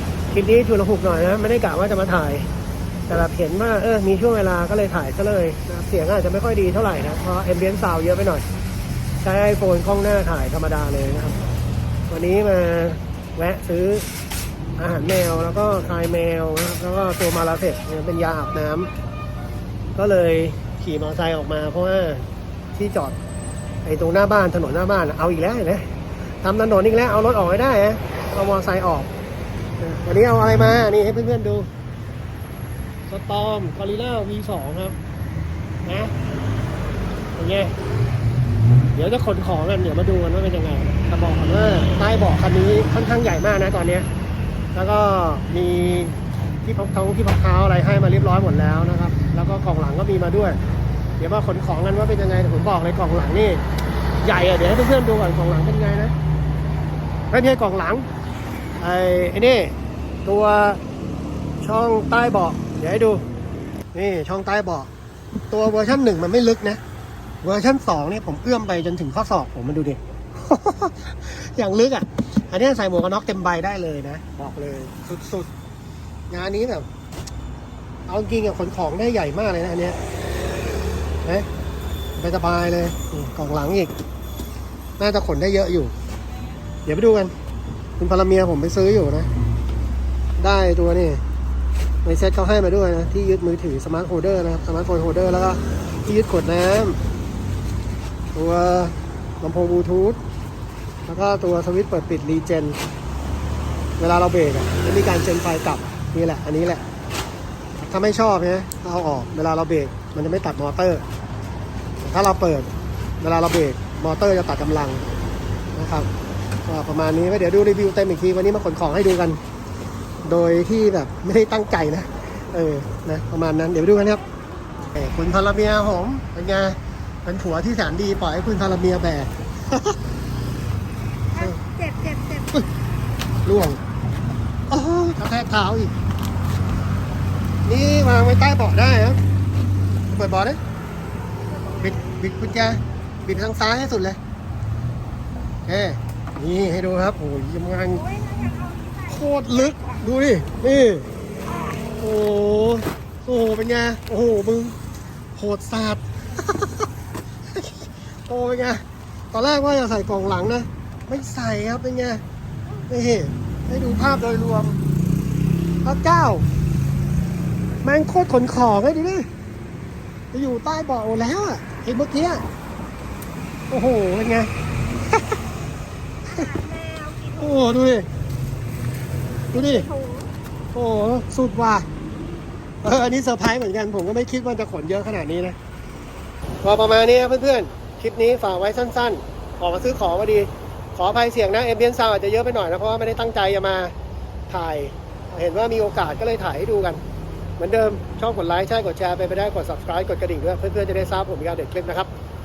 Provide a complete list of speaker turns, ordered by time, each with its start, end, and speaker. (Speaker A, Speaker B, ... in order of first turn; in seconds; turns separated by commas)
Speaker A: 0.3-2.5, Speaker A: 3.1-8.4, Speaker A: 9.2-11.4, Speaker A: 12.1-14.1, Speaker A: 14.8-18.9, Speaker A: 19.9-23.2, Speaker A: 23.8-25.9, Speaker A: 26.4-29.1, Speaker A: 29.8-31.7, Speaker A: 33.1-35.0, Speaker A: 35.8-36.1, Speaker A: 37.4-37.7, Speaker A: 38.9-44.1, Speaker A: 44.7-50.6, Speaker A: 51.2-53.6, Speaker A: 54.2-56.1, Speaker A: 57.3-58.0, Speaker A: 58.8-60.8, Speaker A: 61.6-63.2, Speaker A: 63.9-64.9, Speaker A: 65.5-66.8, Speaker A: 67.4-75.5, Speaker A: 76.3-76.9, Speaker A: 78.1-80.0, Speaker A: 82.2-83.9, Speaker A: 85.0-85.9, Speaker A: 86.8-87.3, Speaker A: 88.0-89.3, Speaker A: 90.4-91.2, Speaker A: 92.0-97.0, Speaker A: 98.3-100.2, Speaker A: 101.0-102.8, Speaker A: 104.0-106.8, Speaker A: 107.8-111.0, Speaker A: 112.0-115.0, Speaker A: 115.7-116.1, Speaker A: 116.7-119.4, Speaker A: 120.2-124.2, Speaker A: 124.9-130.0, Speaker B: 131.3-132.5, Speaker A: 133.4-133.8, Speaker A: 134.7-135.9, Speaker A: 137.7-139.2, Speaker A: 140.1-140.6, Speaker A: 141.7-144.2, Speaker A: 145.7-148.1, Speaker B: 148.1-149.9, Speaker A: 149.1-151.1, Speaker A: 152.0-154.8, Speaker A: 155.3-156.8, Speaker A: 157.5-162.2, Speaker A: 162.9-164.8, Speaker A: 165.8-166.4, Speaker A: 167.8-169.3, Speaker A: 170.3-172.4, Speaker A: 173.7-174.5, Speaker B: 176.3-177.6, Speaker A: 177.4-178.1, Speaker A: 179.5-179.9, Speaker B: 179.5-180.3, Speaker A: 180.7-181.9, Speaker A: 182.8-185.6, Speaker A: 186.6-193.9, Speaker A: 194.5-197.0, Speaker A: 197.6-202.1